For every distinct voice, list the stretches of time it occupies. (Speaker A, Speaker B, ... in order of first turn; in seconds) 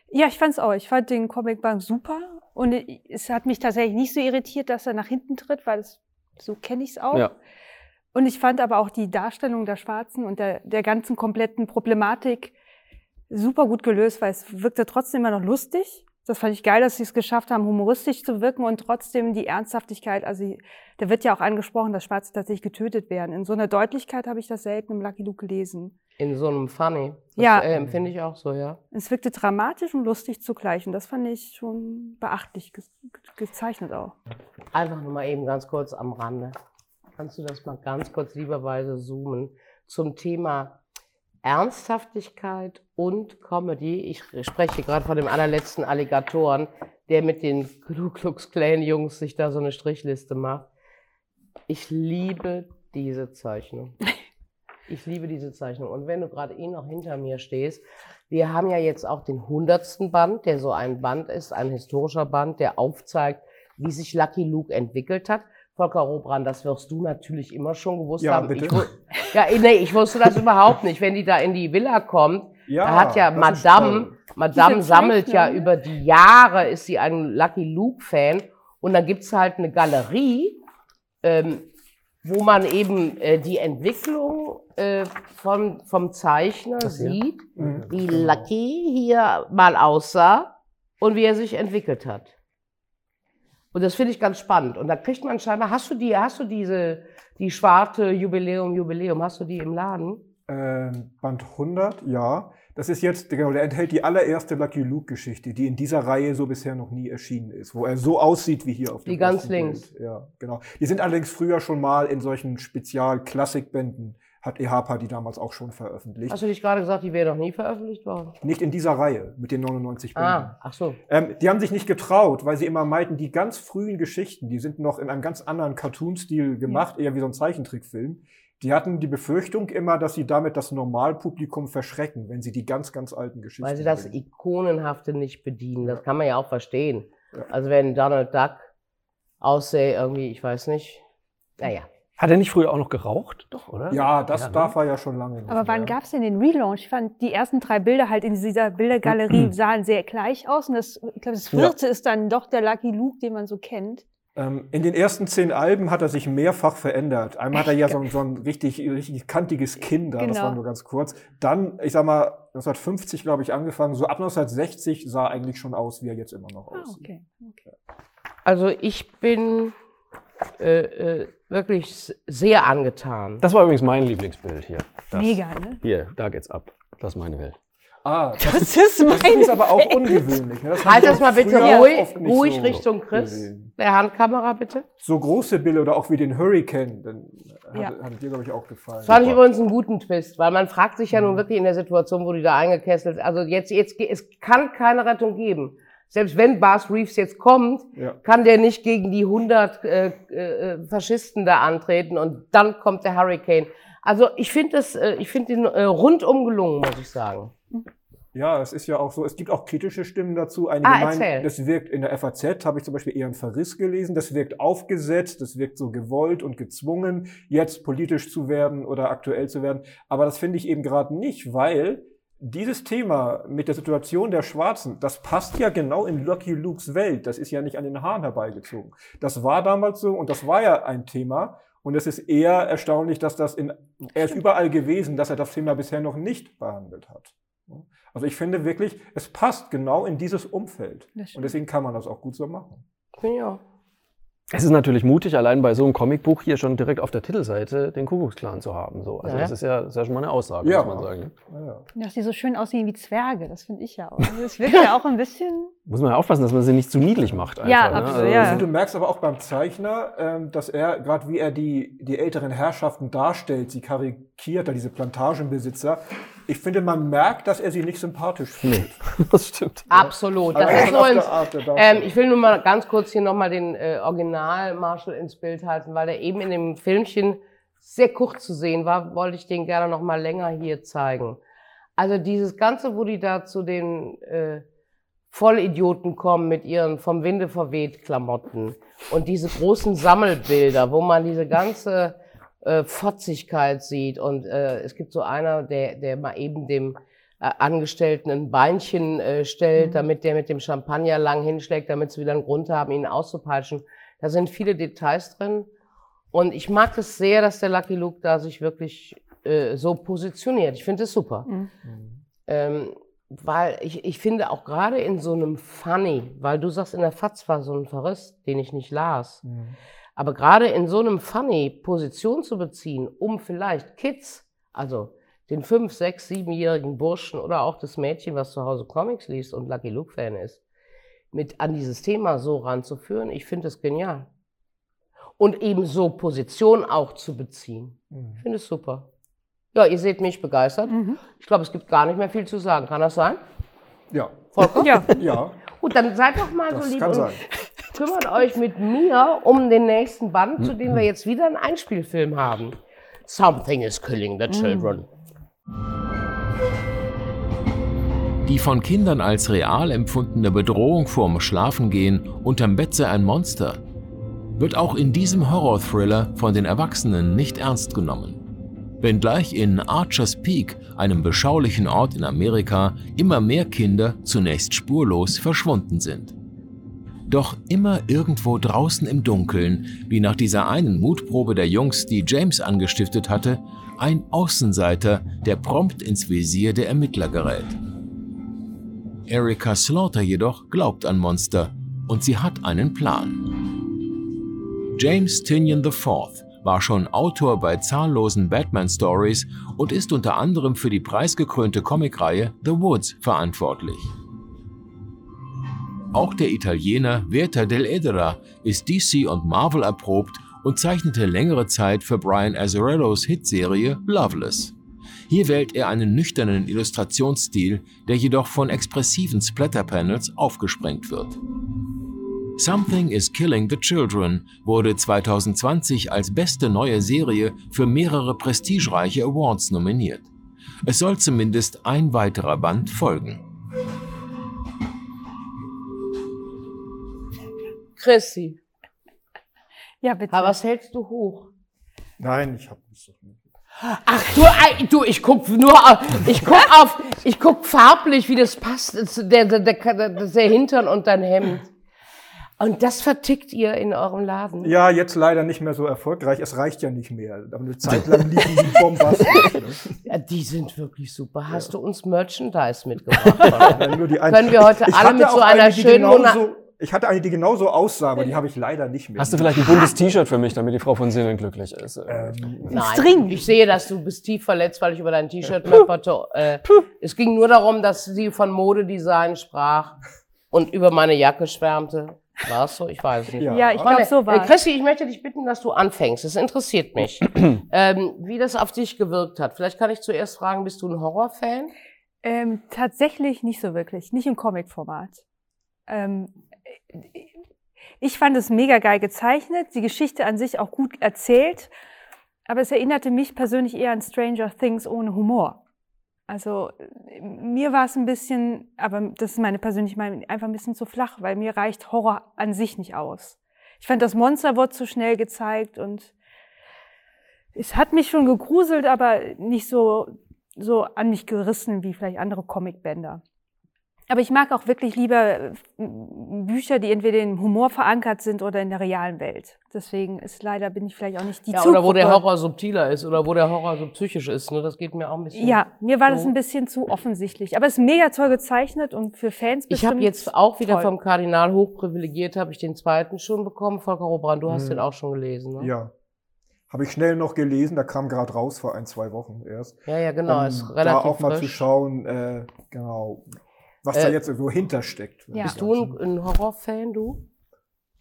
Speaker A: 0.1-7.3, 8.1-12.5, 13.3-25.9, 27.4-27.7, 28.9-34.2, 74.5-75.7, 145.5-154.0, 160.2-160.6, 166.8-167.6, 175.1-175.8, 178.5-180.3, 181.6-181.9, 241.2-241.5, 252.0-255.7, 257.6-258.7, 299.8-300.1, 340.9-341.2, 344.8-345.2, 354.5-354.9, 440.0-440.6, 472.7-473.4, 483.5-484.6, 492.2-495.2, 495.9-496.3, 496.9-497.3, 498.0-501.7, 502.5-505.6, 506.3-516.1, 517.6-523.2, 524.1-532.2, 535.3-540.9
Speaker B: 26.2-28.8, 34.7-36.5, 37.2-40.8, 41.4-50.7, 51.7-54.0, 54.9-80.6, 81.2-81.7, 82.2-92.3, 93.7-100.2, 109.1-109.9, 116.3-118.3, 120.2-121.0, 133.6-138.7, 139.4-141.0, 141.6-141.9, 168.4-169.8, 170.6-173.4, 180.8-184.8, 189.1-207.5, 210.8-211.5, 243.2-243.6, 249.2-249.5, 269.9-281.4, 282.0-284.6, 285.3-305.7, 306.3-311.5, 312.5-319.4, 320.2-330.6, 331.3-334.3, 335.4-339.1, 339.7-343.4, 344.6-345.1, 345.7-347.4, 347.9-355.1, 438.0-438.6, 440.3-441.5, 443.8-451.7, 452.6-454.7, 460.1-466.4, 472.7-480.0, 480.5-491.7, 531.5-536.3, 539.7-545.7, 549.9-551.6, 553.9-554.2, 555.4-557.2
Speaker C: 68.2-68.9, 72.7-74.2, 87.6-88.5, 100.5-116.4, 118.4-120.6, 121.1-134.2, 143.9-146.0, 154.4-167.0, 178.0-183.7, 185.0-189.4, 191.1-191.4, 208.3-242.8, 250.6-251.8, 257.9-268.9, 269.9-272.2, 311.9-312.2, 319.4-319.8, 338.1-338.4, 344.1-345.6, 346.7-347.4, 442.2-443.4, 454.6-459.8, 463.5-470.0, 472.1-472.8, 483.4-483.9, 544.5-544.9, 545.6-545.9, 546.7-553.3, 553.8-556.0
Speaker D: 86.8-87.9, 142.2-144.7, 149.1-149.5, 173.4-177.6, 178.5-179.0, 244.5-251.3, 255.9-258.7, 268.6-269.9, 469.2-472.5
Speaker E: 358.4-363.8, 364.6-368.4, 369.0-376.4, 377.3-387.8, 389.3-393.6, 394.9-404.1, 406.1-414.7, 415.3-421.4, 422.6-430.3, 430.9-433.4